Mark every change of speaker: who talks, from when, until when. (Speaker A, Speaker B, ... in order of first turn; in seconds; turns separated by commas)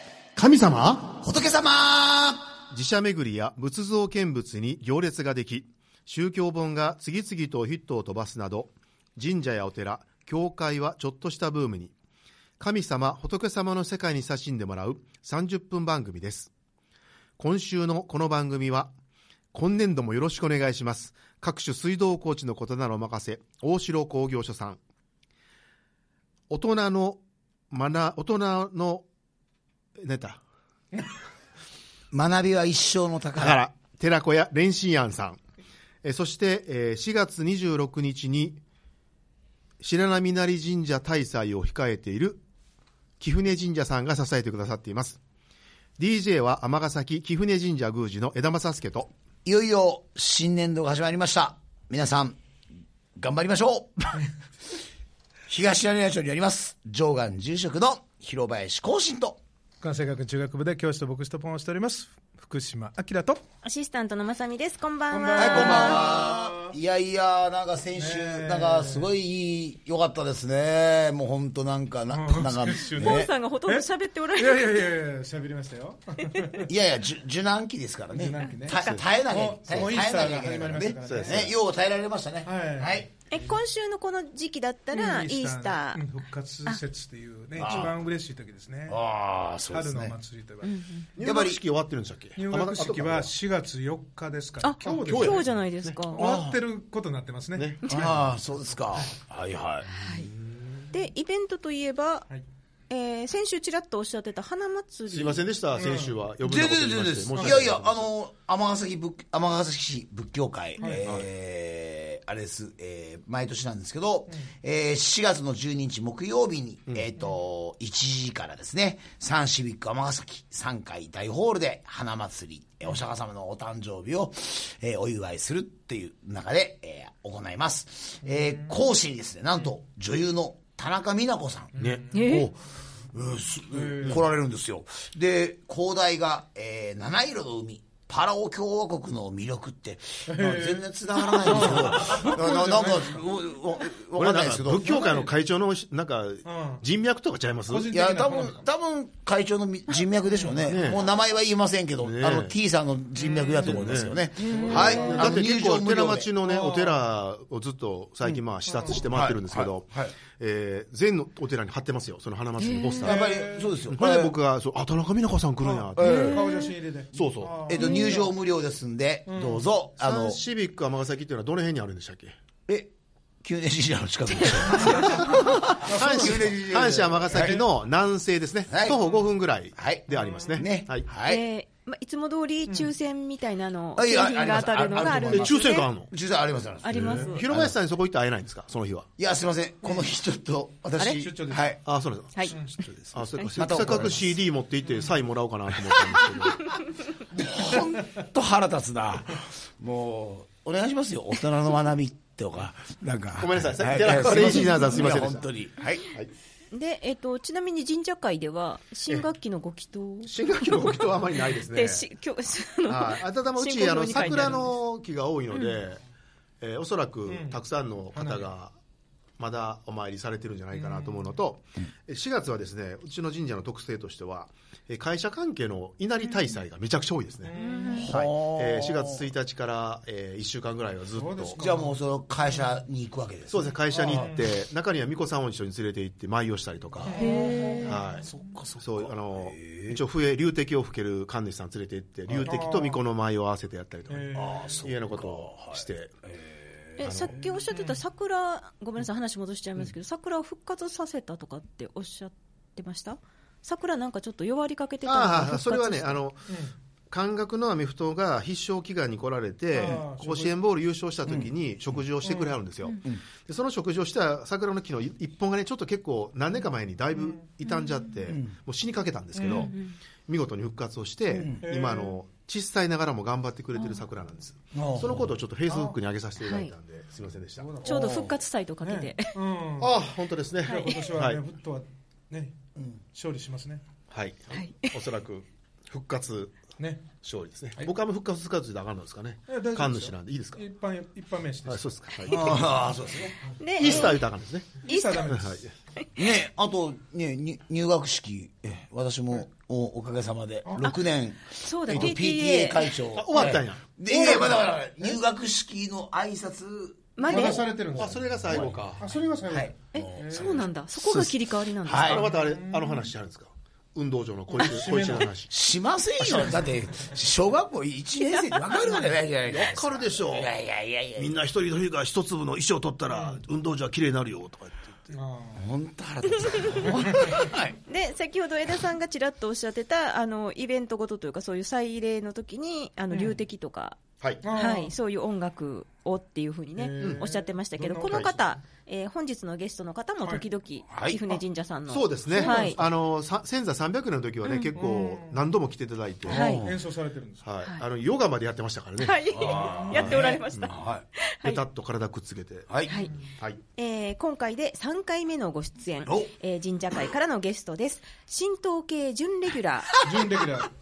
Speaker A: 0.3-1.1, Speaker B: 1.1-2.6, Speaker A: 2.7-11.9, Speaker A: 12.6-16.5, Speaker A: 17.4-18.9, Speaker A: 19.5-24.8, Speaker A: 26.5-29.0, Speaker A: 30.0-30.4, Speaker B: 32.1-33.6, Speaker A: 33.4-35.4, Speaker A: 36.0-38.6, Speaker A: 39.8-42.4, Speaker A: 43.2-45.2, Speaker A: 46.0-49.1, Speaker B: 49.4-52.4, Speaker B: 53.1-54.3, Speaker B: 55.5-59.4, Speaker C: 59.8-63.4, Speaker D: 63.6-66.0, Speaker C: 65.1-66.8, Speaker B: 65.3-73.3, Speaker C: 68.0-69.1, Speaker C: 72.1-76.7, Speaker D: 73.0-74.8, Speaker D: 76.2-76.6, Speaker B: 76.7-83.1, Speaker C: 78.1-81.5, Speaker D: 78.7-79.0, Speaker A: 81.1-81.5, Speaker C: 82.4-83.0, Speaker D: 83.3-86.0, Speaker C: 84.9-89.0, Speaker B: 87.5-88.0, Speaker B: 88.9-90.2, Speaker C: 89.7-90.8, Speaker D: 90.6-91.1, Speaker A: 91.2-93.3, Speaker B: 91.2-91.6, Speaker C: 92.3-95.5, Speaker D: 94.6-96.2, Speaker A: 95.0-96.4, Speaker C: 96.1-98.2, Speaker B: 96.2-96.6, Speaker A: 97.5-98.1, Speaker B: 97.9-99.9, Speaker D: 99.9-100.3, Speaker A: 100.2-100.7, Speaker D: 100.9-102.3, Speaker D: 102.9-105.4, Speaker A: 105.1-108.1, Speaker C: 105.7-106.2, Speaker B: 106.4-131.8, Speaker C: 107.3-107.6, Speaker C: 110.8-111.1, Speaker C: 131.8-132.4, Speaker A: 131.8-132.5, Speaker D: 132.1-132.5, Speaker B: 133.1-145.3, Speaker C: 133.7-134.2, Speaker A: 134.0-134.3, Speaker C: 140.3-143.2, Speaker A: 144.2-148.0, Speaker C: 146.4-146.8, Speaker C: 147.7-148.6, Speaker B: 147.9-156.3, Speaker C: 150.3-150.6, Speaker A: 150.6-151.0, Speaker A: 152.0-152.5, Speaker C: 153.2-153.8, Speaker A: 153.5-163.3, Speaker C: 154.4-155.4, Speaker D: 154.4-154.9, Speaker C: 156.4-157.0, Speaker C: 158.7-159.1, Speaker B: 159.1-160.1, Speaker D: 162.6-163.1, Speaker C: 163.0-163.8, Speaker B: 163.0-164.3, Speaker A: 163.9-166.3, Speaker C: 165.6-168.3, Speaker B: 165.9-166.4, Speaker D: 166.0-166.7, Speaker A: 167.1-167.6, Speaker B: 167.6-170.4, Speaker D: 167.8-168.1, Speaker C: 169.3-169.6, Speaker A: 170.0-172.3, Speaker B: 172.7-177.6, Speaker D: 174.3-175.0, Speaker A: 175.3-181.1, Speaker C: 175.7-176.5, Speaker C: 177.3-177.6, Speaker B: 178.7-179.0, Speaker B: 179.7-181.4, Speaker C: 180.2-180.6, Speaker D: 181.2-185.9, Speaker B: 183.9-187.8, Speaker A: 185.2-186.1, Speaker D: 186.8-187.4, Speaker A: 186.9-189.1, Speaker B: 189.2-191.8, Speaker D: 191.0-191.3, Speaker C: 191.1-191.7, Speaker A: 191.8-192.5, Speaker C: 192.4-193.1, Speaker A: 193.1-196.8, Speaker B: 193.5-194.4, Speaker B: 197.3-206.1, Speaker A: 203.4-205.5, Speaker D: 204.4-204.8, Speaker D: 206.7-214.7, Speaker A: 210.2-212.0, Speaker A: 212.9-216.0, Speaker A: 216.6-218.7, Speaker C: 217.3-217.6, Speaker C: 218.1-218.5, Speaker A: 219.4-231.6, Speaker C: 220.7-221.3, Speaker C: 227.4-228.0, Speaker D: 227.5-228.1, Speaker B: 228.0-229.2, Speaker C: 231.1-231.9, Speaker B: 231.6-234.3, Speaker A: 233.5-246.1, Speaker C: 234.0-234.4, Speaker C: 237.0-237.9, Speaker D: 237.1-238.0, Speaker B: 238.2-240.0, Speaker B: 242.3-242.6, Speaker C: 242.4-243.0, Speaker C: 244.1-244.6, Speaker B: 244.3-247.5, Speaker D: 247.0-256.2, Speaker A: 247.0-247.4, Speaker C: 247.7-248.0, Speaker A: 255.1-256.5, Speaker C: 256.5-256.7, Speaker A: 257.1-277.8, Speaker C: 259.7-260.6, Speaker B: 261.2-261.5, Speaker D: 262.3-263.0, Speaker D: 267.7-268.1, Speaker C: 269.4-269.7, Speaker D: 269.5-269.9, Speaker B: 271.3-271.6, Speaker C: 271.4-272.2, Speaker D: 273.8-274.0, Speaker B: 274.7-275.3, Speaker C: 275.7-276.0, Speaker D: 276.4-276.7, Speaker C: 277.6-280.1, Speaker D: 277.8-279.3, Speaker A: 279.8-281.4, Speaker D: 280.6-281.0, Speaker C: 280.7-282.6, Speaker C: 283.1-283.8, Speaker A: 284.1-290.6, Speaker D: 284.5-284.9, Speaker C: 286.8-287.1, Speaker C: 289.5-292.2, Speaker A: 291.6-292.7, Speaker B: 292.3-293.4, Speaker D: 293.6-294.2, Speaker A: 293.7-295.7, Speaker C: 294.8-295.5, Speaker D: 294.9-295.4, Speaker B: 296.1-308.8, Speaker D: 301.5-302.9, Speaker A: 303.1-304.7, Speaker D: 307.2-307.6, Speaker C: 307.2-310.6, Speaker A: 307.3-309.1, Speaker B: 309.5-312.3, Speaker D: 309.9-312.3, Speaker A: 312.0-315.5, Speaker C: 312.3-313.1, Speaker C: 314.5-315.3, Speaker B: 315.5-321.4, Speaker A: 316.2-316.6, Speaker A: 319.4-320.5, Speaker A: 321.2-325.1, Speaker C: 323.1-323.4, Speaker C: 325.1-325.6, Speaker B: 325.5-327.8, Speaker C: 326.8-327.4, Speaker D: 327.9-342.8, Speaker C: 334.4-334.9, Speaker C: 336.8-338.3, Speaker A: 338.1-338.3, Speaker B: 340.9-341.4, Speaker A: 341.9-346.6, Speaker C: 342.4-342.6, Speaker D: 344.4-344.7, Speaker C: 344.7-345.5, Speaker D: 346.3-346.6, Speaker C: 346.3-347.4, Speaker B: 346.3-346.8, Speaker A: 347.4-350.8, Speaker D: 349.0-351.6, Speaker B: 349.3-351.0, Speaker C: 349.6-350.2, Speaker A: 351.4-352.7, Speaker B: 352.7-353.0, Speaker D: 352.9-353.1, Speaker C: 353.0-353.3, Speaker D: 353.8-360.0, Speaker B: 356.0-356.3, Speaker C: 360.0-360.7